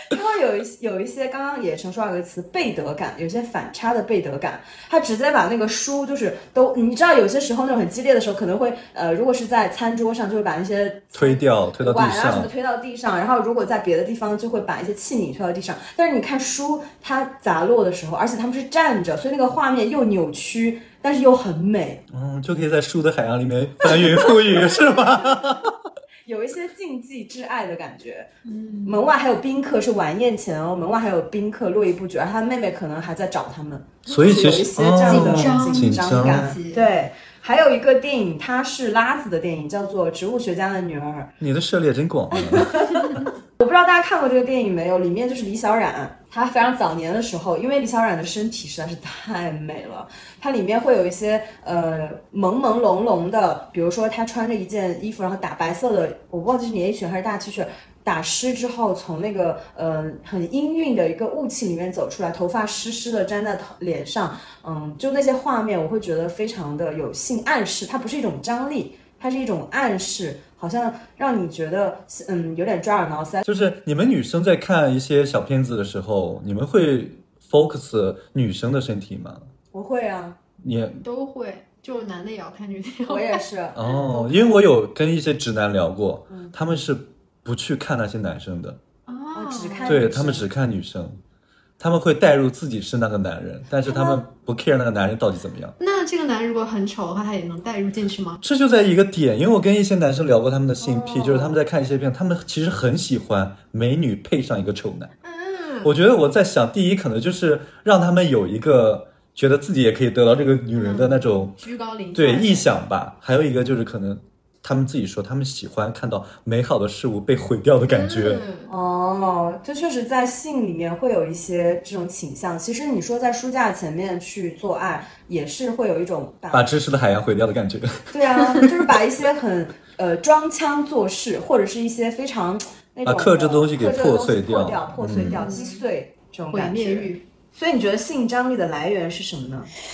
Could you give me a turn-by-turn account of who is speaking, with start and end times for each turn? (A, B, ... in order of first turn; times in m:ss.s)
0:00.1-0:22.0 A
0:11.1-0:12.5 B
0:22.1-0:25.7 B
0:26.2-0:28.3 A
0:28.4-0:29.1 C
0:28.8-0:41.3 A
0:34.1-0:36.5 B
0:35.0-0:36.9 C
0:41.4-0:42.8 B
0:42.4-1:13.4 A
1:13.4-1:19.5 B
1:19.7-1:20.4 A
1:20.6-1:21.0 B
1:21.0-1:23.4 C
1:23.1-1:24.5 A
1:23.7-1:28.8 B
1:29.1-1:30.0 C
1:29.3-1:30.5 A
1:29.8-1:31.2 B
1:31.8-1:35.7 B
1:33.9-1:34.2 A
1:35.8-1:38.4 C
1:38.4-1:45.1 B
1:40.8-1:41.6 A
1:45.2-1:45.9 C
1:45.8-1:51.6 B
1:50.7-1:52.7 C
1:52.1-1:58.4 B
1:57.9-1:58.7 C
1:58.7-2:06.7 A
2:06.5-2:08.1 B
2:08.1-2:19.7 A
2:13.0-2:15.4 B
2:15.2-2:15.8 C
2:16.5-2:17.2 C